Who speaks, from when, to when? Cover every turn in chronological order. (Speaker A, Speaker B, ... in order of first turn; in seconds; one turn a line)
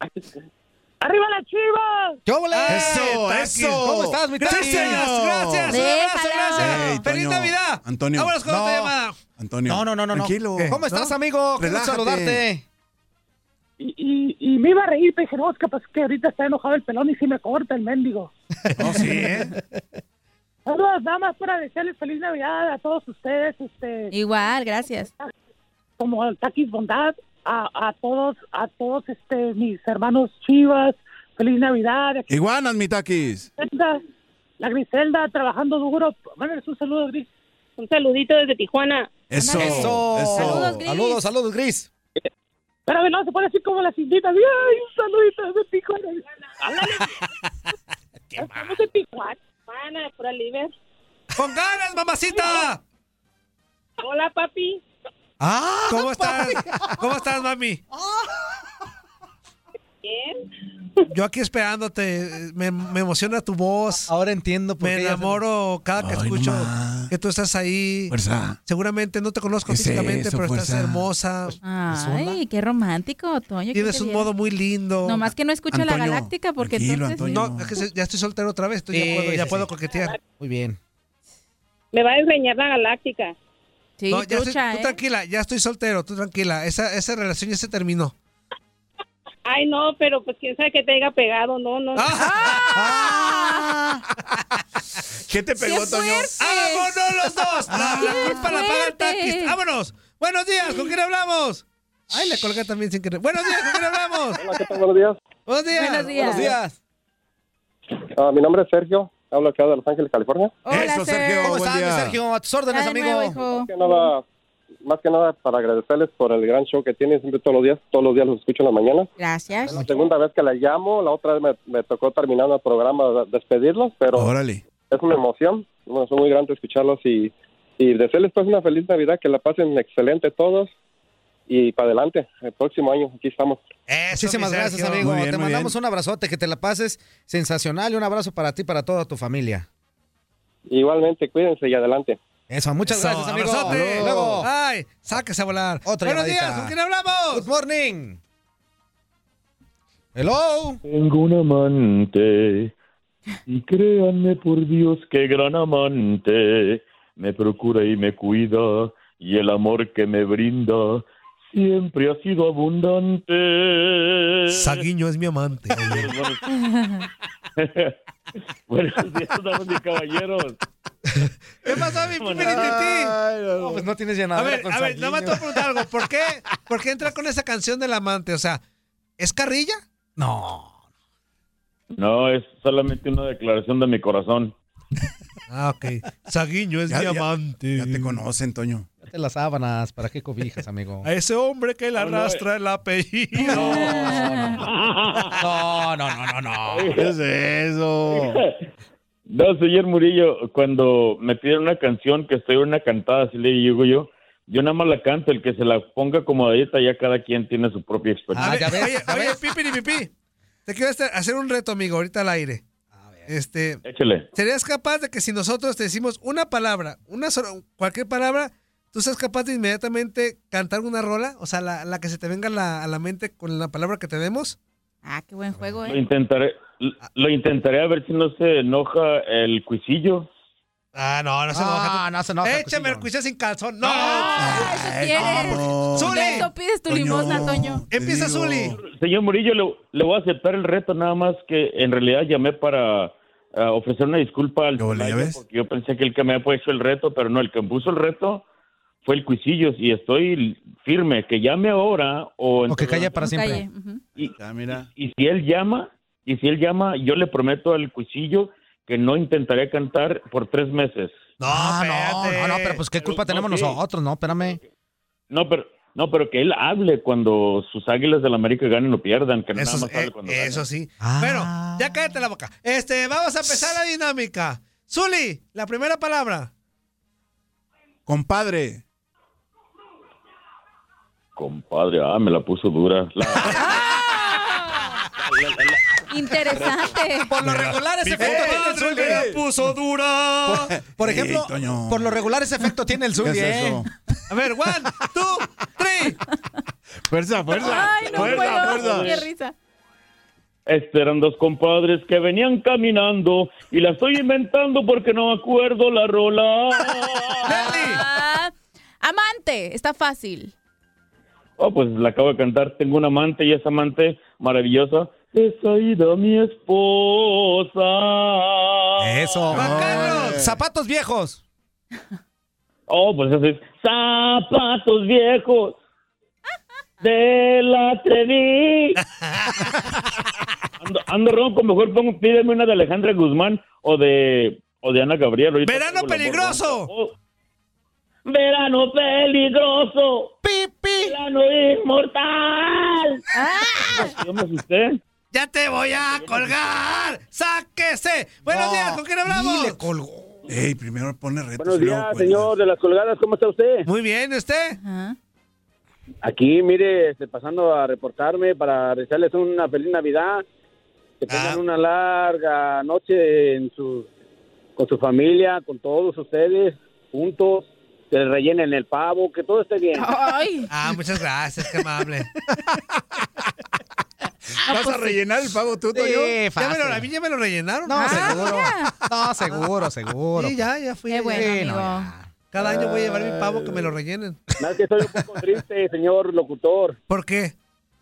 Speaker A: 1.0-2.2
Speaker B: 2.2-3.2
Speaker C: 2.5-9.2
Speaker D: 2.7-5.9
Speaker B: 3.7-5.1
Speaker E: 5.7-7.0
Speaker D: 6.6-8.4
Speaker B: 8.4-8.9
Speaker D: 9.4-10.8
Speaker B: 9.7-12.6
Speaker C: 10.6-11.1
Speaker D: 11.6-12.4
Speaker A: 13.8-18.3
Speaker D: 18.8-19.5
Speaker A: 20.6-24.1
Speaker E: 24.1-25.1
Speaker A: 26.0-32.3
Speaker D: 32.3-33.5
Speaker A: 33.6-34.0
Speaker A: 34.6-37.3
Speaker F: 37.8-39.1
Speaker D: 39.3-40.8
Speaker E: 39.4-41.2
Speaker B: 39.5-41.9
Speaker A: 42.9-47.1
Speaker A: 48.4-49.4
Speaker F: 49.7-50.7
Speaker C: 51.4-52.8
Speaker F: 54.0-54.8
Speaker B: 55.4-57.1
Speaker C: 55.9-57.8
Speaker F: 60.0-60.4
Speaker C: 61.1-64.1
Speaker B: 64.1-65.4
Speaker C: 64.8-68.1
Speaker D: 66.0-67.1
Speaker D: 68.1-68.6
Speaker C: 68.7-72.4
Speaker D: 69.7-71.1
Speaker E: 71.6-74.3
Speaker C: 73.7-75.3
Speaker E: 75.0-77.4
Speaker D: 75.7-77.8
Speaker C: 77.2-80.2
Speaker B: 78.9-79.7
Speaker B: 80.4-80.8
Speaker F: 81.9-83.3
Speaker E: 84.0-85.0
Speaker C: 84.1-88.1
Speaker F: 89.5-92.1
Speaker C: 91.9-92.8
Speaker E: 92.1-93.7
Speaker B: 92.7-94.0
Speaker D: 95.3-96.3
Speaker E: 95.6-97.3
Speaker C: 96.4-104.4
Speaker E: 98.0-99.5
Speaker E: 100.6-100.9
Speaker G: 104.3-105.2
Speaker C: 105.5-106.3
Speaker E: 105.7-106.5
Speaker B: 106.1-106.8
Speaker G: 108.2-110.6
Speaker E: 110.7-111.6
Speaker D: 110.7-112.2
Speaker B: 111.4-113.4
Speaker E: 112.7-113.7
Speaker G: 113.4-114.2
Speaker G: 114.8-119.1
Speaker E: 119.2-119.8
Speaker G: 119.7-124.3
Speaker D: 124.1-124.6
Speaker G: 124.9-130.7
Speaker G: 131.5-133.6
Speaker C: 133.9-135.1
Speaker B: 134.1-139.7
Speaker D: 135.0-135.7
Speaker G: 140.7-142.2
Speaker B: 142.5-144.5
Speaker C: 142.8-147.4
Speaker D: 143.4-144.4
Speaker B: 145.8-146.7
Speaker B: 147.3-148.2
Speaker B: 150.1-150.8
Speaker H: 150.8-152.7
Speaker H: 153.5-164.8
Speaker C: 164.5-166.1
Speaker H: 165.7-166.5
Speaker E: 166.5-167.0
Speaker H: 167.6-167.9
Speaker H: 168.7-170.6
Speaker C: 171.6-173.2
Speaker H: 172.2-172.7
Speaker D: 172.4-173.8
Speaker B: 173.6-175.5
Speaker C: 174.3-178.6
Speaker C: 179.2-179.8
Speaker B: 180.2-180.8
Speaker H: 181.9-184.5
Speaker C: 185.5-188.2
Speaker D: 186.9-188.9
Speaker B: 189.0-191.1
Speaker C: 191.0-194.2
Speaker H: 191.9-192.4
Speaker E: 193.5-194.6
Speaker B: 193.5-194.6
Speaker H: 194.7-195.4
Speaker B: 195.4-197.0
Speaker H: 196.7-197.1
Speaker D: 196.9-198.4
Speaker H: 198.1-198.6
Speaker H: 199.3-208.9
Speaker B: 208.3-209.4
Speaker C: 208.4-210.1
Speaker C: 210.7-212.6
Speaker B: 212.9-213.3
Speaker C: 213.3-213.8
Speaker H: 213.8-214.3
Speaker C: 214.3-224.6
Speaker E: 225.0-226.0
Speaker H: 225.8-230.3
Speaker C: 230.9-234.5
Speaker B: 231.5-233.1
Speaker E: 233.8-237.8
Speaker D: 234.3-238.8
Speaker C: 235.9-236.5
Speaker C: 237.9-238.7
Speaker H: 238.7-248.4
Speaker D: 244.8-245.4
Speaker H: 249.0-253.2
Speaker B: 252.7-253.6
Speaker E: 253.1-254.0
Speaker H: 254.2-261.1
Speaker D: 254.4-254.9
Speaker C: 261.4-262.8
Speaker B: 261.5-264.6
Speaker H: 263.0-263.8
Speaker H: 265.3-270.6
Speaker C: 269.5-276.5
Speaker B: 271.0-272.2
Speaker D: 278.1-278.8
Speaker H: 281.4-283.9
Speaker E: 283.5-284.5
Speaker E: 286.1-287.3
Speaker B: 287.3-289.4
Speaker D: 287.6-289.5
Speaker C: 288.0-290.7
Speaker B: 290.5-293.8
Speaker D: 290.6-292.1
Speaker D: 293.2-293.9
Speaker C: 294.3-296.2
Speaker D: 297.1-299.2
Speaker E: 297.5-299.5
Speaker H: 300.7-307.5
Speaker E: 307.4-310.5
Speaker C: 307.5-308.0
Speaker H: 311.6-319.5
Speaker B: 319.0-321.4
Speaker D: 319.5-320.5
Speaker C: 319.5-320.4
Speaker H: 322.9-325.8
Speaker H: 327.0-329.0
Speaker C: 329.0-329.7
Speaker H: 330.8-337.1
Speaker C: 335.6-336.9
Speaker H: 338.2-340.3
Speaker B: 340.4-341.1
Speaker H: 341.0-343.2
Speaker E: 343.3-344.1
Speaker H: 343.8-345.0
Speaker C: 345.3-349.8
Speaker B: 348.4-350.5
Speaker D: 350.5-352.5
Speaker I: 351.6-353.8
Speaker C: 353.8-354.8
Speaker E: 354.8-355.1
Speaker I: 356.2-360.4
Speaker C: 361.3-361.6
Speaker I: 361.3-364.0
Speaker I: 364.8-370.0
Speaker E: 369.9-370.7
Speaker C: 370.7-372.3
Speaker D: 374.7-376.4
Speaker E: 374.7-375.2
Speaker B: 375.9-377.1
Speaker C: 376.5-378.6
Speaker B: 377.9-380.6
Speaker E: 377.9-378.9
Speaker C: 380.3-381.7
Speaker E: 381.1-382.1
Speaker B: 381.3-382.3
Speaker C: 382.5-384.4
Speaker I: 384.6-386.9
Speaker C: 387.1-387.5